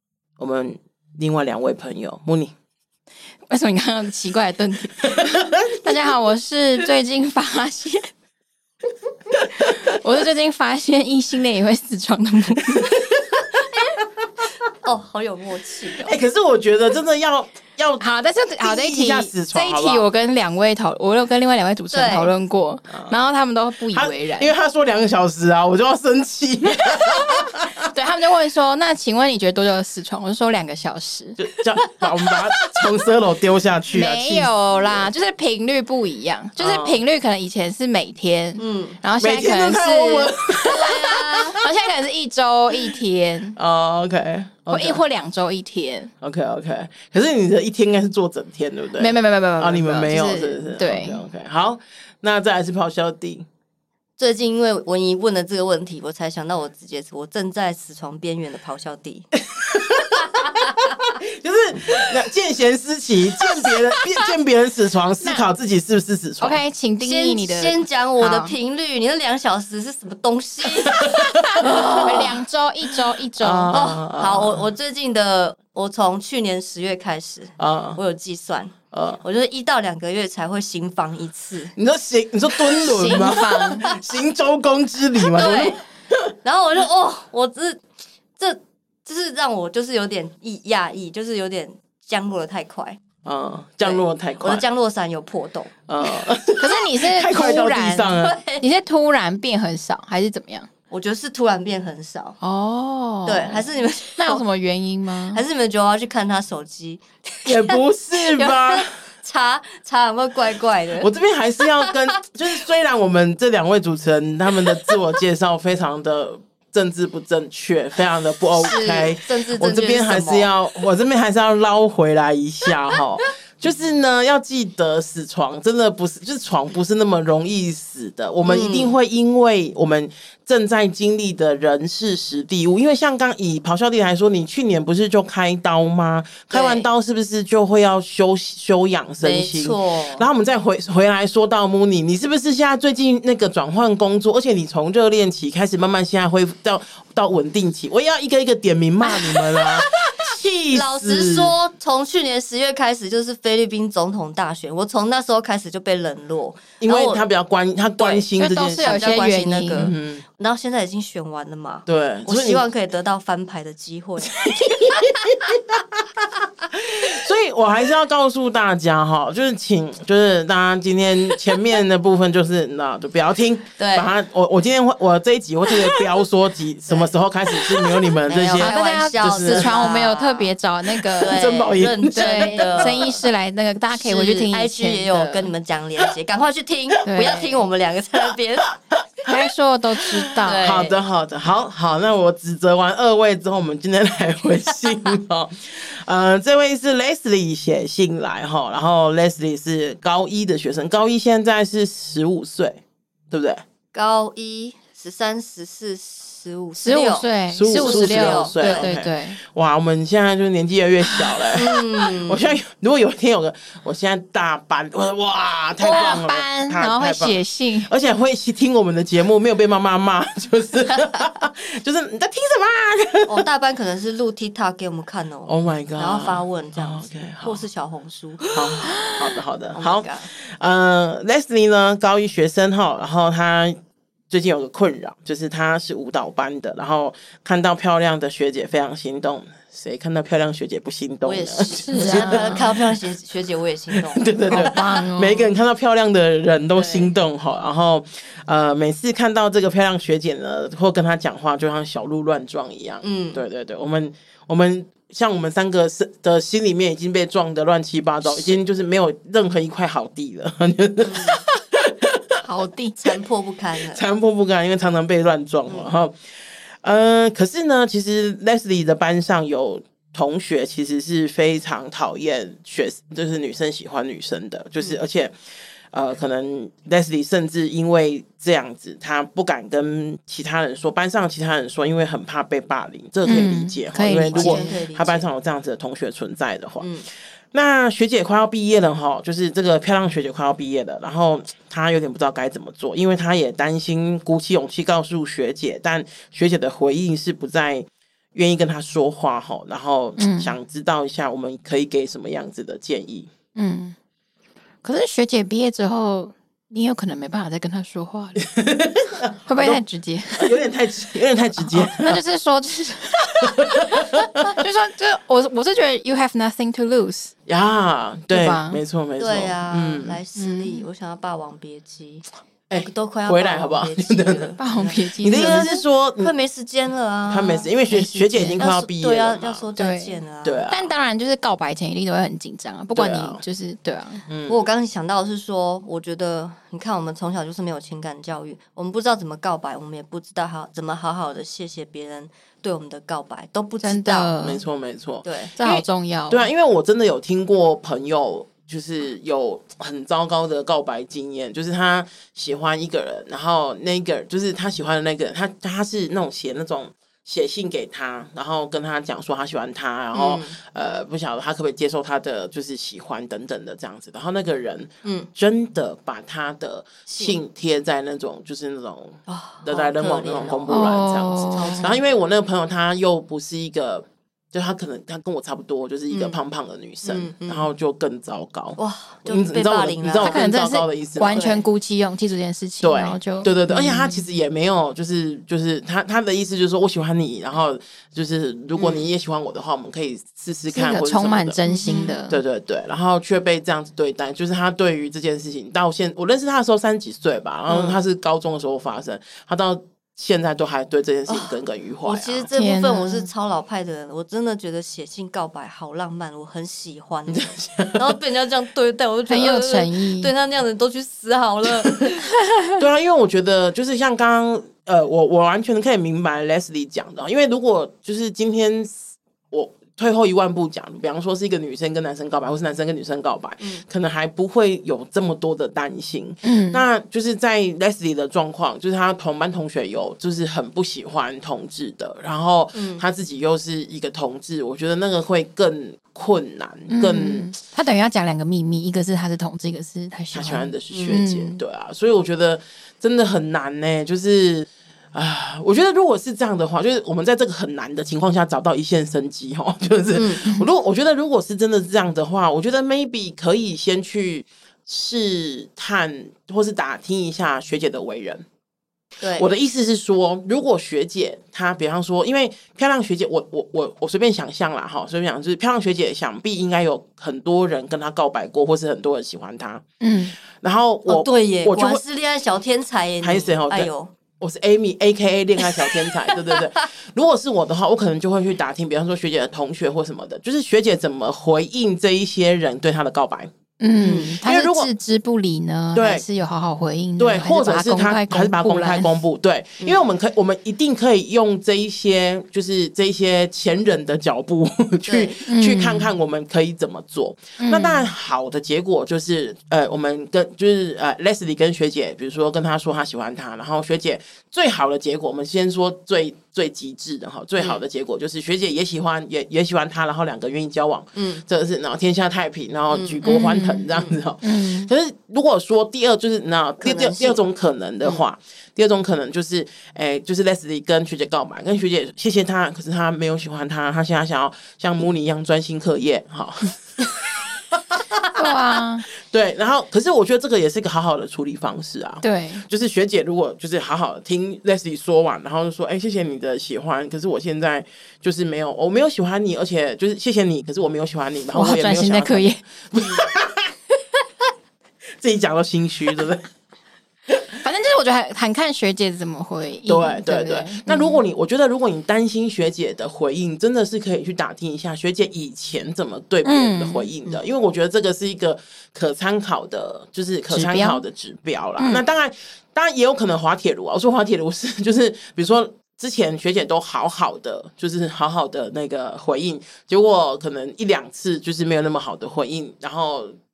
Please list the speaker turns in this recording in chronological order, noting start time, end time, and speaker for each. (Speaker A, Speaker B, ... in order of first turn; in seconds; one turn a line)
Speaker A: 0.4-2.5
Speaker B: 3.5-8.1
Speaker A: 5.0-5.8
Speaker B: 9.6-13.0
Speaker A: 12.8-13.4
Speaker C: 14.8-16.2
Speaker A: 16.1-20.1
Speaker B: 18.0-24.6
Speaker C: 21.9-22.3
Speaker A: 23.9-27.9
Speaker B: 27.8-31.4
Speaker A: 31.4-35.1
Speaker B: 32.3-32.9
Speaker B: 33.9-43.6
Speaker A: 36.6-37.0
Speaker C: 38.6-39.0
Speaker A: 39.2-41.5
Speaker C: 40.7-41.6
Speaker A: 43.5-45.0
Speaker B: 44.7-46.1
Speaker A: 46.2-53.5
Speaker B: 49.0-51.2
Speaker C: 54.2-59.3
Speaker A: 59.4-66.6
Speaker B: 65.2-65.5
Speaker B: 66.4-68.5
Speaker C: 67.0-71.9
Speaker A: 70.9-72.4
Speaker B: 72.0-73.8
Speaker A: 73.4-74.6
Speaker C: 73.7-81.7
Speaker A: 77.6-78.0
Speaker A: 78.9-79.2
Speaker A: 81.8-86.2
Speaker B: 82.8-83.9
Speaker C: 85.2-85.8
Speaker C: 86.4-87.8
Speaker C: 88.4-93.0
Speaker A: 93.2-94.6
Speaker C: 93.8-95.8
Speaker A: 95.9-98.4
Speaker B: 96.6-100.7
Speaker C: 98.1-98.6
Speaker C: 100.9-102.4
Speaker B: 102.4-105.4
Speaker C: 103.3-104.4
Speaker C: 105.3-111.1
Speaker A: 107.5-108.9
Speaker A: 111.0-151.6
Speaker C: 111.8-112.2
Speaker C: 118.6-120.5
Speaker C: 128.4-129.0
Speaker C: 136.5-136.9
Speaker C: 139.2-140.3
Speaker C: 149.1-150.1
Speaker C: 150.7-157.2
Speaker A: 156.8-159.1
Speaker C: 158.0-165.1
Speaker B: 158.4-159.9
Speaker A: 159.8-160.2
Speaker A: 161.9-162.6
Speaker A: 164.3-179.9
Speaker C: 173.8-174.1
Speaker C: 176.9-177.2
Speaker C: 178.3-180.6
Speaker B: 178.6-181.5
Speaker A: 181.0-183.1
Speaker C: 181.2-183.2
Speaker B: 182.1-185.5
Speaker C: 183.9-188.7
Speaker B: 187.1-187.6
Speaker A: 188.9-189.3
Speaker B: 189.2-190.7
Speaker A: 190.0-203.6
Speaker C: 190.4-191.0
Speaker C: 194.7-195.1
Speaker C: 203.9-208.9
Speaker B: 206.8-209.4
Speaker A: 207.5-223.3
Speaker B: 211.0-211.5
Speaker C: 211.5-212.5
Speaker B: 215.8-217.9
Speaker C: 223.3-229.0
Speaker A: 225.4-227.7
Speaker A: 228.5-233.8
Speaker C: 229.7-230.3
Speaker A: 234.3-243.0
Speaker C: 241.2-244.7
Speaker B: 241.8-242.7
Speaker A: 243.9-262.4
Speaker B: 244.5-245.6
Speaker C: 246.7-247.1
Speaker C: 253.0-253.4
Speaker C: 261.0-261.4
Speaker B: 262.4-263.0
Speaker C: 263.0-264.0
Speaker A: 263.9-266.2
Speaker A: 266.8-275.4
Speaker A: 275.9-286.9
Speaker B: 283.2-284.7
Speaker C: 284.2-285.3
Speaker C: 286.8-287.1
Speaker A: 287.5-303.3
Speaker B: 300.2-300.6
Speaker B: 303.6-303.9
Speaker B: 304.8-308.4
Speaker A: 308.5-309.8
Speaker B: 309.5-310.6
Speaker A: 310.4-312.2
Speaker B: 311.6-317.3
Speaker A: 313.4-314.5
Speaker A: 317.5-320.2
Speaker B: 318.3-318.8
Speaker C: 319.2-327.7
Speaker B: 320.4-320.8
Speaker A: 322.7-326.3
Speaker B: 324.6-325.8
Speaker A: 327.3-329.7
Speaker B: 327.9-328.7
Speaker C: 328.6-330.7
Speaker B: 329.8-334.3
Speaker A: 330.4-330.9
Speaker A: 332.9-333.4
Speaker A: 334.3-334.6
Speaker C: 334.5-344.4
Speaker B: 343.8-344.6
Speaker A: 344.4-381.4
Speaker C: 345.2-345.6
Speaker B: 345.6-346.5
Speaker C: 360.1-360.6
Speaker C: 367.1-367.4
Speaker C: 369.3-370.8
Speaker B: 370.7-371.9
Speaker C: 371.5-372.1
Speaker C: 376.1-376.4
Speaker C: 377.0-377.7
Speaker C: 378.8-380.4
Speaker B: 380.2-384.2
Speaker C: 381.3-381.7
Speaker A: 382.8-402.5
Speaker C: 388.8-389.1
Speaker B: 390.7-392.4
Speaker C: 391.7-392.2
Speaker C: 397.7-398.0
Speaker C: 401.3-412.3
Speaker B: 402.5-403.3
Speaker A: 407.3-408.2
Speaker B: 409.3-410.3
Speaker A: 412.8-437.5
Speaker B: 426.4-426.9
Speaker C: 432.7-433.1
Speaker B: 436.9-441.6
Speaker A: 440.3-458.4
Speaker C: 440.9-441.2
Speaker C: 450.1-450.5
Speaker C: 459.2-459.5
Speaker A: 459.2-469.9
Speaker B: 470.0-470.4
Speaker A: 470.4-472.0
Speaker C: 471.1-474.1
Speaker A: 473.2-483.5
Speaker B: 483.8-489.1
Speaker A: 484.2-484.9
Speaker A: 485.9-486.3
Speaker A: 487.2-528.6
Speaker C: 495.1-495.4
Speaker B: 495.4-496.1
Speaker B: 497.6-498.1
Speaker C: 511.2-511.4
Speaker C: 512.9-513.3
Speaker B: 513.2-514.9
Speaker C: 516.8-517.4
Speaker B: 528.3-529.0
Speaker A: 529.1-543.7
Speaker B: 532.2-532.7
Speaker B: 541.5-542.6
Speaker A: 545.2-546.5
Speaker B: 547.6-551.2
Speaker A: 549.9-573.3
Speaker B: 556.4-557.1
Speaker B: 560.5-561.0
Speaker B: 561.8-562.1